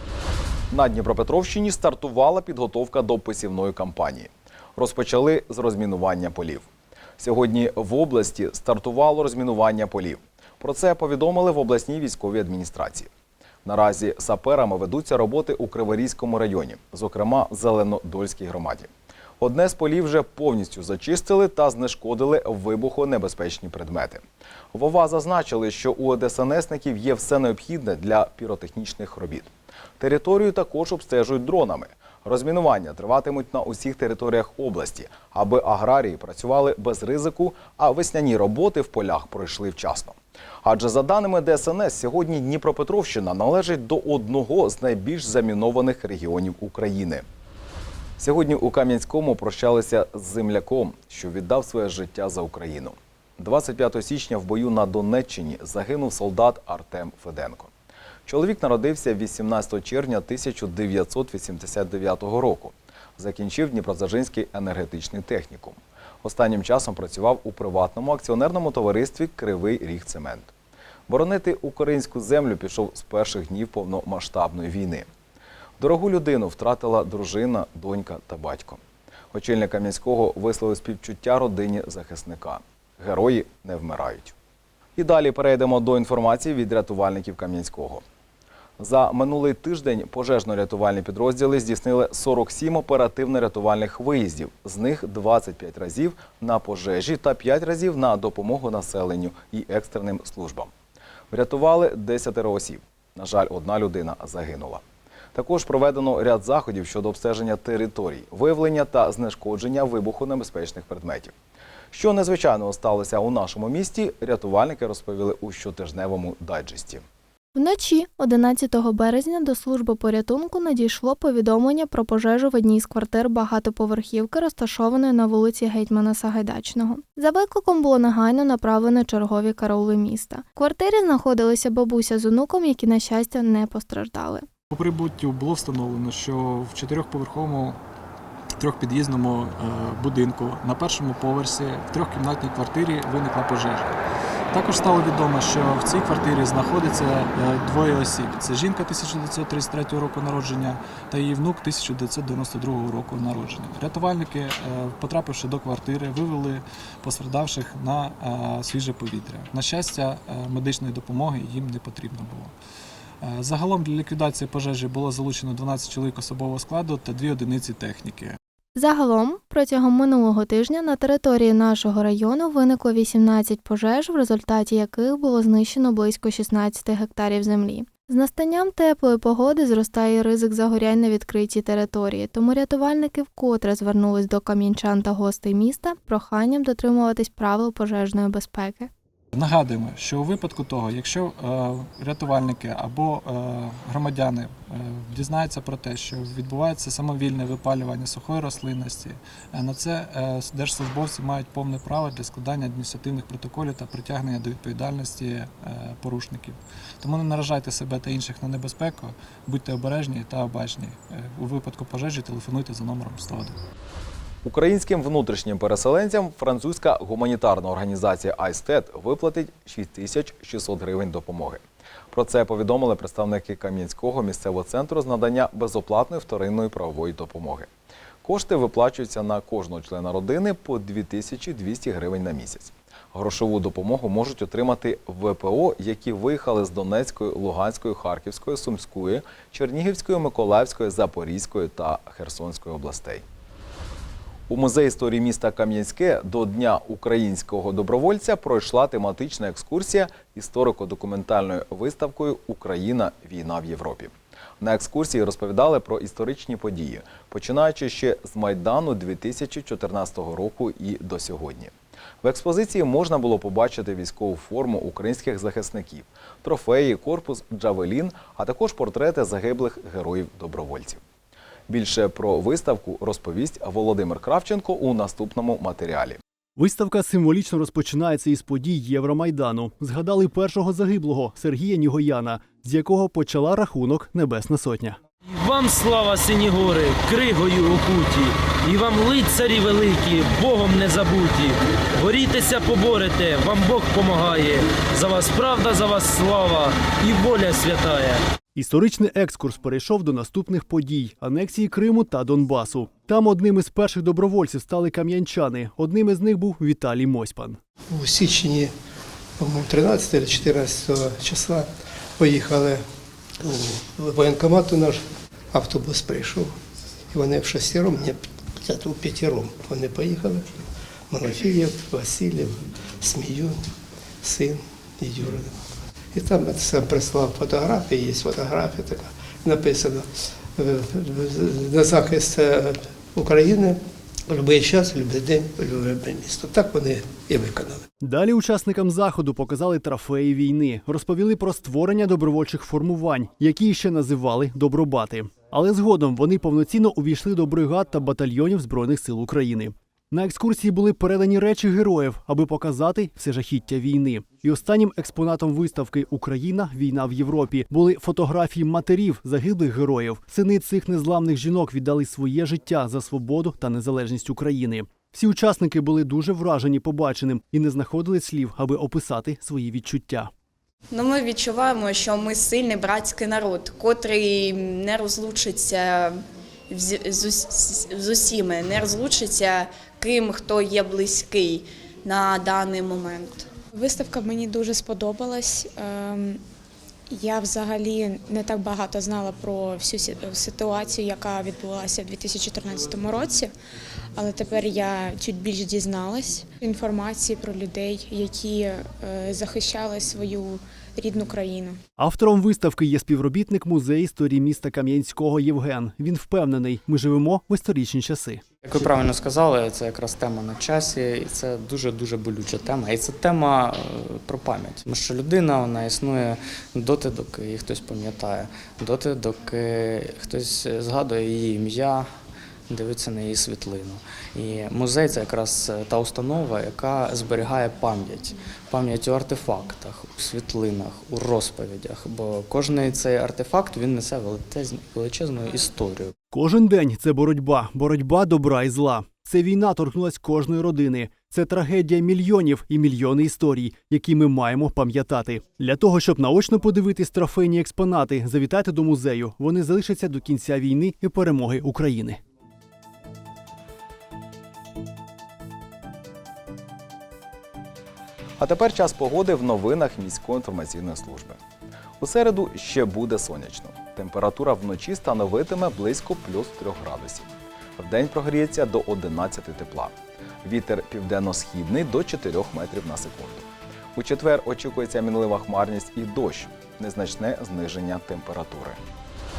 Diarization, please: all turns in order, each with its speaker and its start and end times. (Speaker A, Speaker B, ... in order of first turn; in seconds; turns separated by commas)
Speaker A: 0.7-6.7, Speaker A: 7.2-13.1, Speaker A: 13.6-18.9, Speaker A: 19.4-24.2, Speaker A: 24.7-47.2, Speaker A: 48.2-57.7, Speaker A: 58.3-70.5, Speaker A: 71.1-75.1, Speaker A: 75.8-78.8, Speaker A: 79.3-84.3, Speaker A: 85.0-88.0, Speaker A: 88.8-100.7, Speaker A: 101.3-104.8, Speaker A: 105.3-111.3, Speaker A: 111.9-117.0, Speaker B: 117.5-134.5, Speaker C: 134.7-137.8, Speaker C: 138.6-143.9, Speaker C: 144.5-162.5, Speaker C: 163.2-168.4, Speaker B: 168.8-188.9, Speaker C: 189.3-213.6, Speaker A: 214.4-227.7, Speaker A: 228.2-243.2, Speaker A: 244.5-271.0, Speaker A: 271.7-276.2, Speaker D: 276.6-285.0, Speaker E: 285.3-298.2, Speaker D: 298.6-307.6, Speaker F: 307.9-308.7, Speaker F: 309.4-312.8, Speaker F: 313.4-315.0, Speaker F: 315.5-316.5, Speaker F: 317.1-323.6, Speaker F: 324.2-325.6, Speaker F: 326.1-330.1, Speaker F: 330.6-337.8, Speaker D: 338.0-370.3, Speaker G: 370.9-376.1, Speaker G: 376.7-383.4, Speaker H: 383.7-386.4, Speaker H: 387.1-393.5, Speaker H: 394.1-401.8, Speaker D: 402.0-408.4, Speaker I: 408.6-422.1, Speaker I: 422.7-436.1, Speaker D: 436.3-452.2, Speaker A: 458.4-461.4, Speaker A: 462.0-469.9, Speaker A: 470.4-478.8